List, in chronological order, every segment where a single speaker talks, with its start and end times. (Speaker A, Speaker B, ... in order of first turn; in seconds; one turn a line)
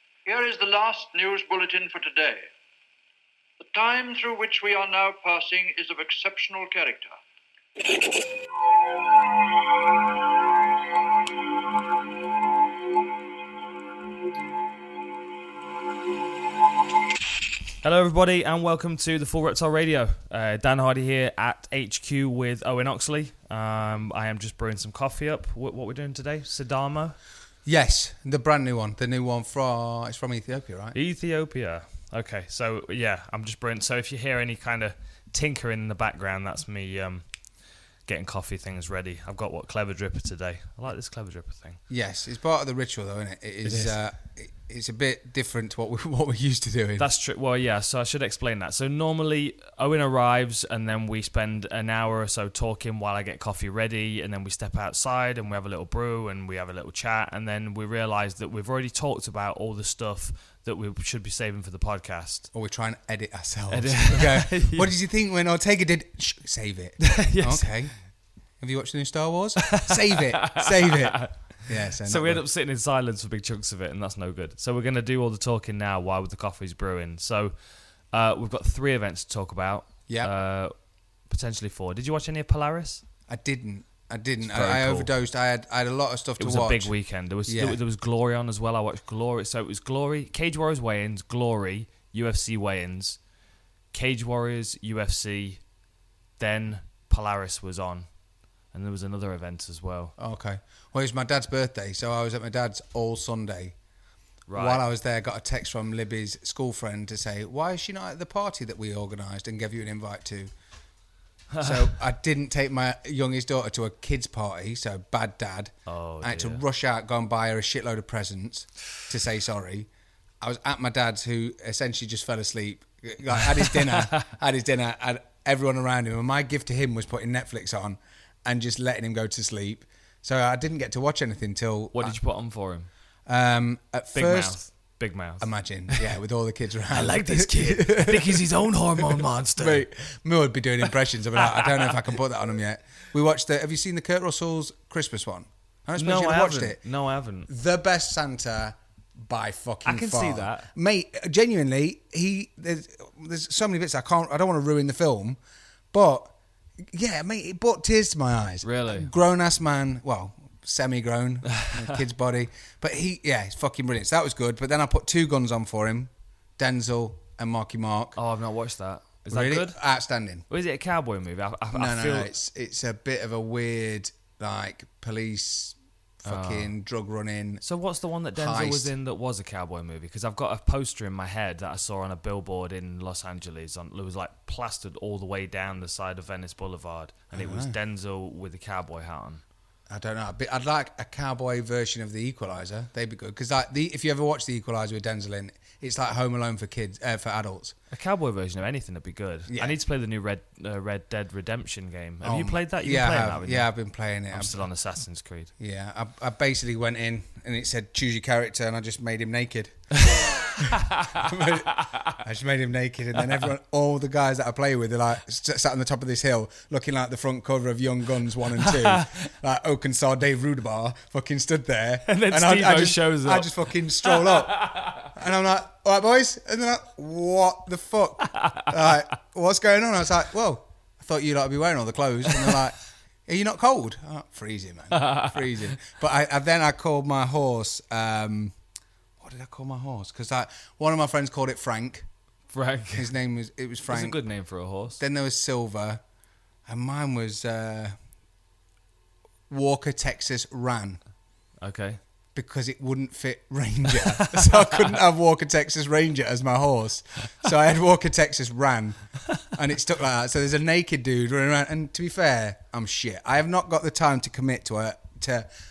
Speaker A: 0.2-2.5
Speaker A: 3.6-7.2
Speaker B: 17.8-27.2
Speaker C: 27.6-30.9
Speaker B: 30.9-37.2
Speaker B: 38.0-41.8
Speaker C: 41.9-47.1
Speaker B: 43.6-44.0
Speaker B: 47.0-62.5
Speaker C: 62.5-67.9
Speaker B: 63.7-64.9
Speaker B: 67.0-67.7
Speaker C: 68.6-72.4
Speaker B: 69.7-77.6
Speaker B: 78.1-80.7
Speaker B: 81.3-83.0
Speaker C: 83.3-86.9
Speaker B: 84.4-85.1
Speaker B: 86.4-93.2
Speaker C: 87.5-87.8
Speaker B: 93.9-95.6
Speaker B: 96.4-98.1
Speaker B: 98.7-100.1
Speaker C: 100.2-103.7
Speaker B: 104.5-104.8
Speaker C: 104.5-110.5
Speaker B: 111.5-111.9
Speaker C: 111.6-119.9
Speaker B: 115.8-116.6
Speaker C: 120.4-132.2
Speaker B: 123.6-124.3
Speaker B: 131.9-132.9
Speaker C: 133.3-134.6
Speaker B: 134.1-136.1
Speaker C: 135.4-146.8
Speaker B: 136.9-139.8
Speaker B: 141.5-141.9
Speaker B: 146.0-147.5
Speaker C: 147.5-155.4
Speaker B: 149.8-150.7
Speaker C: 155.9-168.2
Speaker B: 158.6-159.1
Speaker B: 168.2-169.8
Speaker C: 169.3-170.4
Speaker B: 170.5-172.3
Speaker C: 171.7-177.6
Speaker B: 176.2-176.7
Speaker B: 177.6-189.4
Speaker C: 178.3-178.9
Speaker C: 187.3-187.7
Speaker C: 189.9-197.7
Speaker B: 197.9-203.7
Speaker C: 199.5-199.8
Speaker C: 202.2-204.6
Speaker B: 204.3-205.5
Speaker C: 205.6-238.5
Speaker B: 210.1-212.2
Speaker B: 218.6-219.2
Speaker B: 222.0-225.1
Speaker B: 228.3-228.7
Speaker B: 234.9-235.5
Speaker C: 239.2-242.1
Speaker B: 242.5-243.1
Speaker C: 242.9-244.2
Speaker B: 243.9-245.0
Speaker C: 245.0-246.0
Speaker C: 246.7-247.9
Speaker C: 249.5-251.0
Speaker B: 251.6-252.0
Speaker C: 252.3-265.5